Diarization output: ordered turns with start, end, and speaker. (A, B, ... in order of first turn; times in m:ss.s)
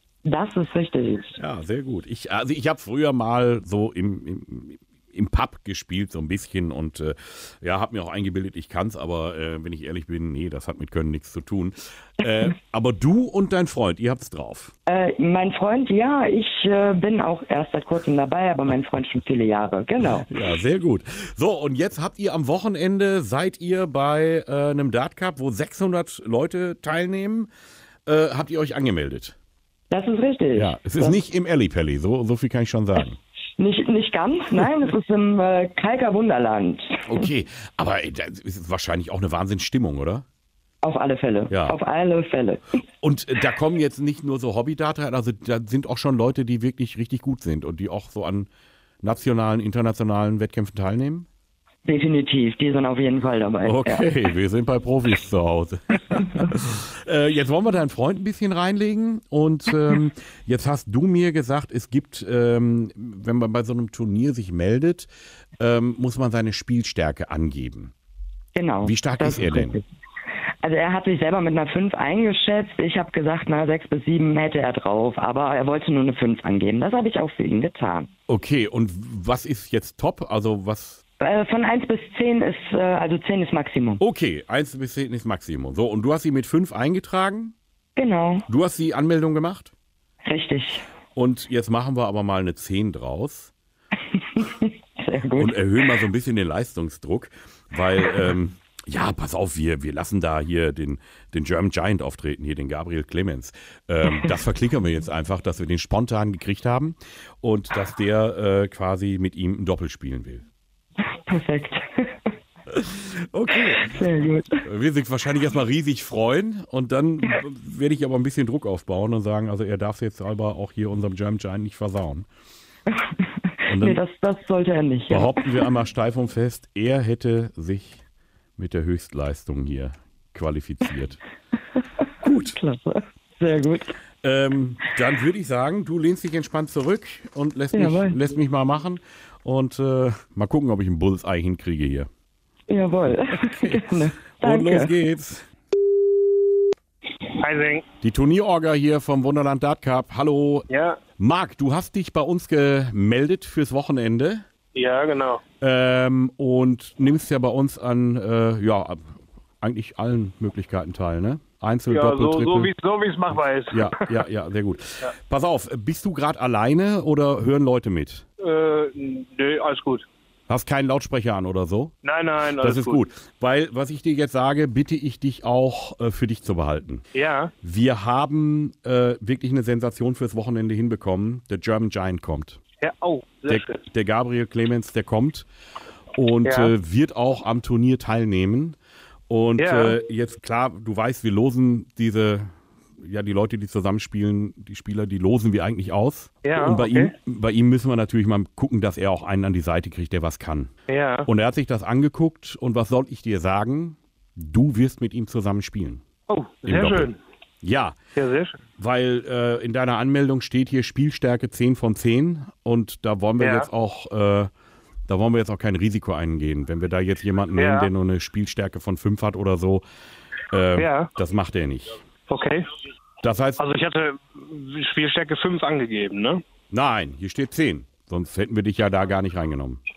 0:00.2-0:01.4 A
0:01.4-0:14.7 B
0:14.9-0:20.3 A
0:20.3-0:27.5 B
0:28.0-0:29.4 B
0:29.9-0:31.2 A
0:30.5-0:33.2 B
0:33.6-0:37.2 A
0:37.0-0:40.2 B
0:40.8-0:42.6 A
0:41.5-0:41.8 B
0:43.0-0:48.5 B
0:49.0-0:51.3 B
0:51.8-0:54.1 A
0:53.6-1:07.9 B
1:08.5-1:09.8 A
1:08.8-1:09.8 B
1:10.6-1:18.1 A
1:18.3-1:21.0 B
1:21.2-1:24.0 A
1:24.0-1:27.5 B
1:28.0-1:28.4 A
1:28.5-1:29.7 B
1:30.2-1:30.8 A
1:31.1-1:33.5 B
1:34.1-1:35.6 A
1:35.4-1:50.4 B
1:51.1-1:52.3 A
1:52.8-1:54.0 B
1:53.9-1:54.6 A
1:54.6-2:02.3 B
2:03.0-2:05.6 A
2:03.7-2:04.0 B
2:05.1-2:08.0 B
2:08.6-2:11.2 B
2:12.2-2:12.6 B
2:12.3-2:14.0 A
2:14.2-2:22.1 B
2:17.7-2:18.2 A
2:22.7-2:24.9 A
2:23.0-2:25.5 B
2:27.4-2:27.8 C
2:28.0-2:30.7 B
2:30.7-2:31.0 C
2:31.2-2:34.4 B
2:34.7-2:35.4 C
2:35.6-2:42.7 B
2:41.9-2:44.0 C
2:43.3-2:48.2 B
2:48.4-2:50.0 C
2:50.5-2:51.9 B
2:52.0-2:53.0 C
2:52.6-2:57.0 B
2:57.1-2:57.5 C
2:57.6-3:02.6 B
3:02.8-3:03.8 C
3:03.5-3:05.5 B
3:06.1-3:08.8 B
3:06.4-3:06.7 C
3:09.3-3:12.5 B
3:09.6-3:10.0 C
3:13.0-3:20.7 B
3:16.4-3:17.1 C
3:20.9-3:21.3 C
3:21.2-3:26.0 B
3:26.3-3:27.2 C
3:26.6-3:27.1 B
3:27.6-3:28.0 B
3:28.2-3:28.6 C
3:28.8-3:34.5 B
3:33.4-3:33.7 C
3:35.1-3:39.8 B
3:37.6-3:37.9 C
3:40.5-3:41.9 B
3:40.8-3:41.1 C
3:42.3-3:42.7 C
3:43.2-3:43.6 B
3:43.6-3:46.4 C
3:46.7-3:49.8 B